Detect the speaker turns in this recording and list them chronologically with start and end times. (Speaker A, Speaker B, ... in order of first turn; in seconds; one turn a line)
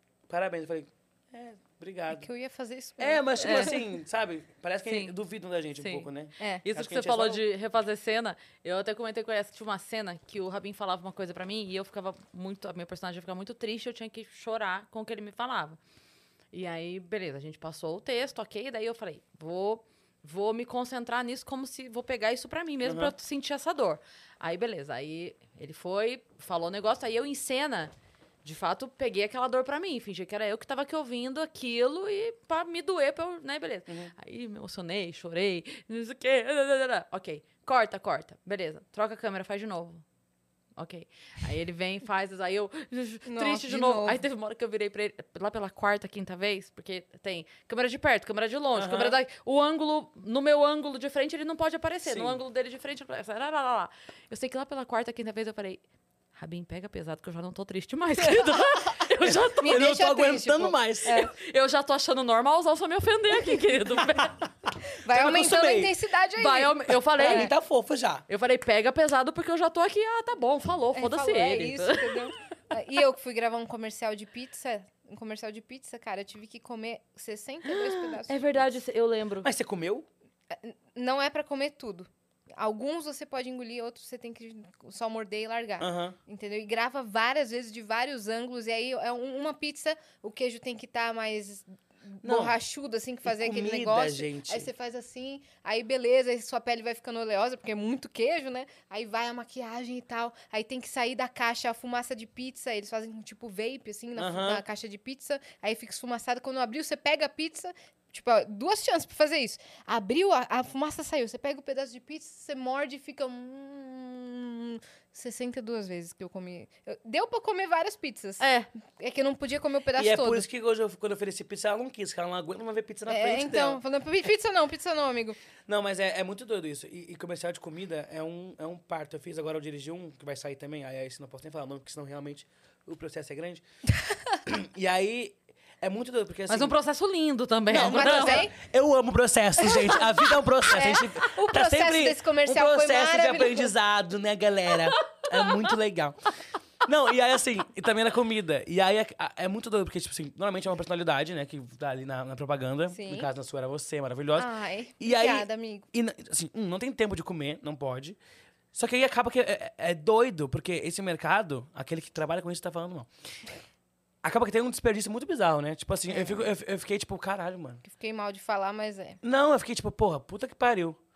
Speaker A: 0.3-2.3
Speaker B: 2.2-3.8
Speaker A: 3.0-7.4
Speaker C: 3.4-3.8
Speaker C: 4.9-5.2
Speaker C: 5.8-6.1
Speaker B: 6.4-6.7
Speaker C: 6.7-15.8
Speaker C: 16.5-27.9
Speaker A: 22.8-23.1
Speaker C: 28.4-40.0
Speaker C: 40.8-55.8
Speaker B: 43.3-44.2
Speaker A: 48.8-49.2
Speaker A: 52.0-52.4
Speaker C: 56.4-59.9
Speaker A: 59.2-61.2
Speaker B: 59.6-61.3
Speaker C: 61.3-64.4
Speaker B: 65.0-67.5
Speaker A: 65.1-65.9
Speaker C: 66.4-67.5
Speaker A: 67.1-68.2
Speaker C: 68.3-72.3
Speaker B: 71.0-78.4
Speaker C: 77.7-79.5
Speaker A: 79.4-80.1
Speaker B: 80.5-120.5
Speaker A: 85.8-86.2
Speaker A: 92.2-92.6
Speaker A: 93.3-94.7
Speaker A: 104.2-104.6
Speaker C: 118.4-118.7
Speaker A: 120.0-123.8
Speaker B: 123.1-125.4
Speaker A: 125.7-133.6
Speaker A: 134.5-136.8
Speaker C: 136.5-138.5
Speaker A: 137.7-146.2
Speaker B: 137.7-138.5
Speaker B: 139.7-140.0
Speaker B: 140.6-143.7
Speaker C: 145.1-145.5
Speaker A: 146.8-158.2
Speaker B: 152.9-153.3
Speaker B: 154.3-155.9
Speaker A: 158.7-163.1
Speaker A: 164.2-167.8
Speaker B: 166.1-166.5
Speaker B: 167.8-169.2
Speaker A: 169.2-171.0